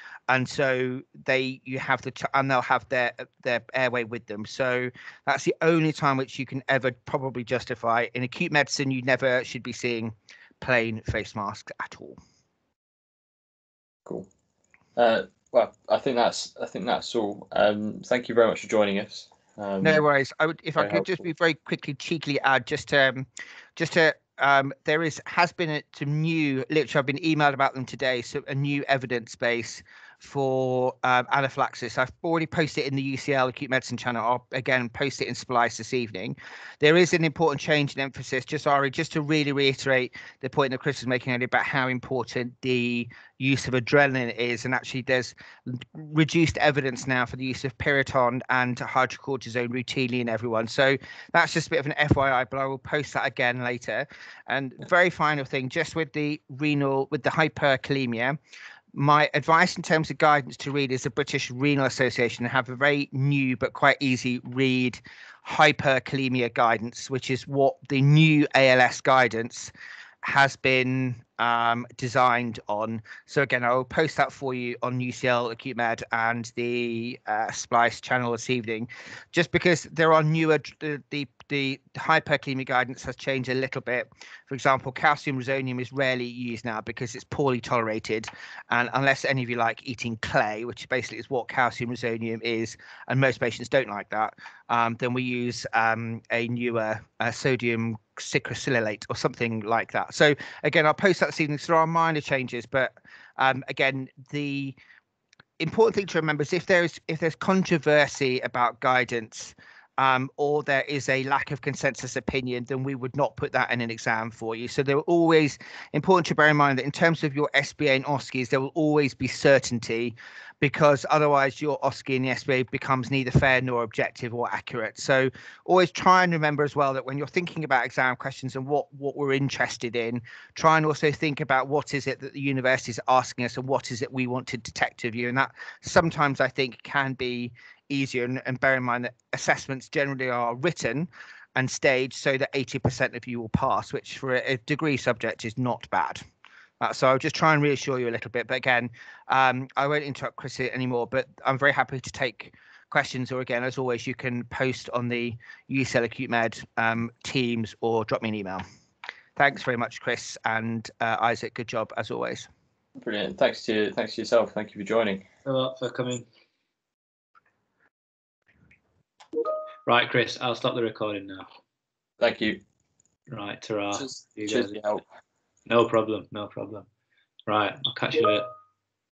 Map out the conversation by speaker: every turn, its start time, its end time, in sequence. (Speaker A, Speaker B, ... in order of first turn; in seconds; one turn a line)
Speaker A: 0.3-12.2
Speaker B: 15.0-20.0
Speaker A: 19.8-58.4
Speaker B: 20.8-21.2
Speaker A: 58.9-69.7
Speaker A: 70.2-104.8
Speaker A: 105.6-146.2
Speaker A: 146.8-158.6
Speaker A: 159.3-162.5
Speaker B: 163.0-165.2
Speaker C: 165.4-166.2
Speaker C: 169.8-171.5
Speaker B: 172.2-172.6
Speaker C: 173.3-174.8
Speaker B: 173.9-175.0
Speaker C: 175.7-176.9
Speaker C: 177.5-178.5